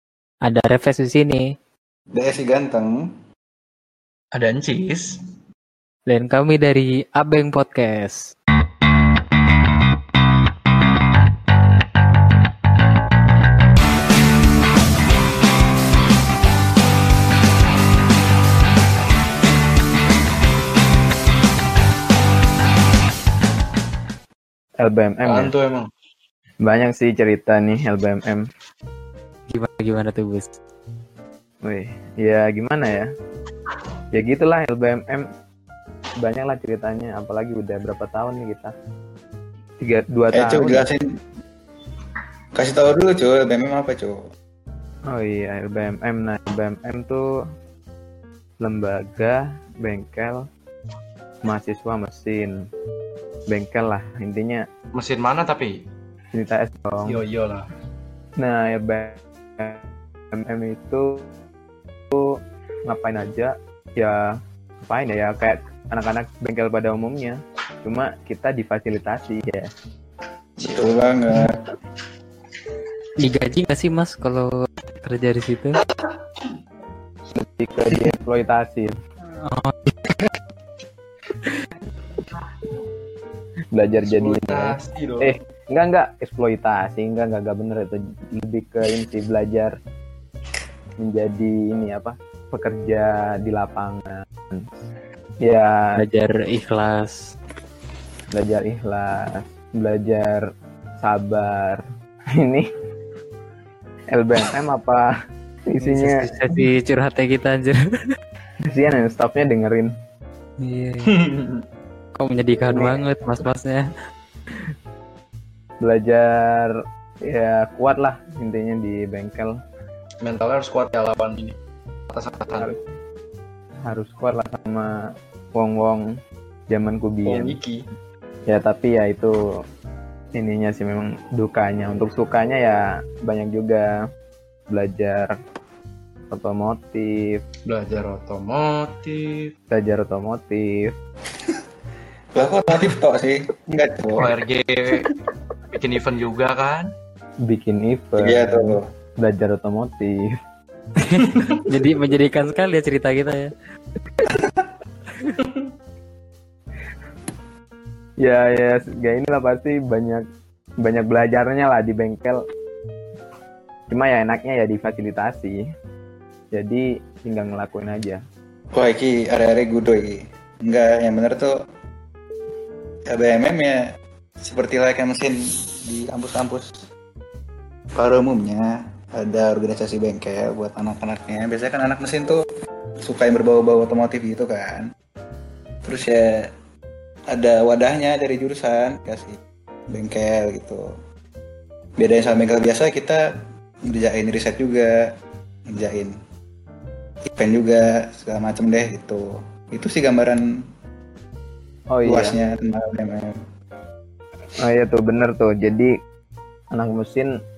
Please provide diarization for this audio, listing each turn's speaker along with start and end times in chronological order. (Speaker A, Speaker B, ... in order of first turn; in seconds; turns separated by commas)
Speaker A: 0.4-1.6, Speaker B: 2.1-3.1, Speaker C: 4.3-5.2, Speaker A: 6.1-8.3, Speaker D: 24.8-25.5, Speaker C: 25.2-25.9, Speaker D: 26.6-28.4, Speaker A: 29.5-30.6, Speaker D: 31.6-33.1, Speaker D: 34.1-35.3, Speaker D: 36.2-38.7, Speaker D: 39.8-40.9, Speaker B: 40.3-41.1, Speaker B: 42.5-44.3, Speaker D: 45.1-47.3, Speaker D: 48.6-50.5, Speaker D: 51.5-52.5, Speaker D: 53.5-54.6, Speaker C: 54.9-55.8, Speaker D: 56.3-57.2, Speaker C: 57.0-57.7, Speaker D: 58.4-59.8, Speaker D: 60.3-61.3, Speaker D: 62.1-69.7, Speaker B: 70.6-71.6, Speaker A: 73.2-75.8, Speaker D: 77.3-78.9, Speaker A: 79.4-80.0, Speaker D: 83.7-89.8, Speaker C: 84.0-85.4, Speaker D: 91.0-94.7, Speaker D: 95.4-96.0, Speaker A: 96.0-97.3, Speaker D: 98.3-100.5, Speaker D: 101.0-101.8, Speaker D: 102.3-102.7, Speaker D: 104.1-105.1, Speaker D: 105.7-106.2, Speaker A: 105.8-108.1, Speaker D: 108.7-109.9, Speaker A: 110.6-111.1, Speaker C: 111.0-111.7, Speaker A: 112.2-113.9, Speaker D: 112.7-113.0, Speaker D: 115.8-119.6, Speaker C: 120.2-121.6, Speaker C: 122.1-122.7, Speaker D: 122.6-122.8, Speaker D: 123.8-125.0, Speaker D: 125.5-126.2, Speaker D: 126.7-127.6, Speaker C: 127.2-127.9, Speaker D: 128.5-129.4, Speaker D: 130.3-133.9, Speaker D: 134.7-135.3, Speaker D: 136.3-137.4, Speaker C: 137.7-139.5, Speaker D: 139.7-140.9, Speaker B: 142.3-144.3, Speaker C: 144.2-145.1, Speaker C: 145.7-146.9, Speaker D: 147.5-150.3, Speaker B: 148.2-148.9, Speaker A: 151.0-153.5, Speaker C: 151.2-151.6, Speaker C: 155.4-155.7, Speaker D: 158.2-160.2, Speaker D: 160.8-162.4, Speaker D: 163.9-165.6, Speaker D: 166.5-168.2, Speaker B: 168.8-171.6, Speaker B: 173.1-173.8, Speaker B: 174.4-176.8, Speaker B: 178.0-182.4, Speaker B: 183.0-184.9, Speaker B: 185.8-186.5, Speaker B: 187.3-189.4, Speaker B: 189.9-190.9, Speaker B: 192.0-193.3, Speaker B: 193.9-195.1, Speaker B: 195.7-196.2, Speaker B: 197.3-200.4, Speaker D: 201.9-202.3, Speaker B: 202.1-203.4, Speaker D: 204.6-205.9, Speaker D: 206.7-207.3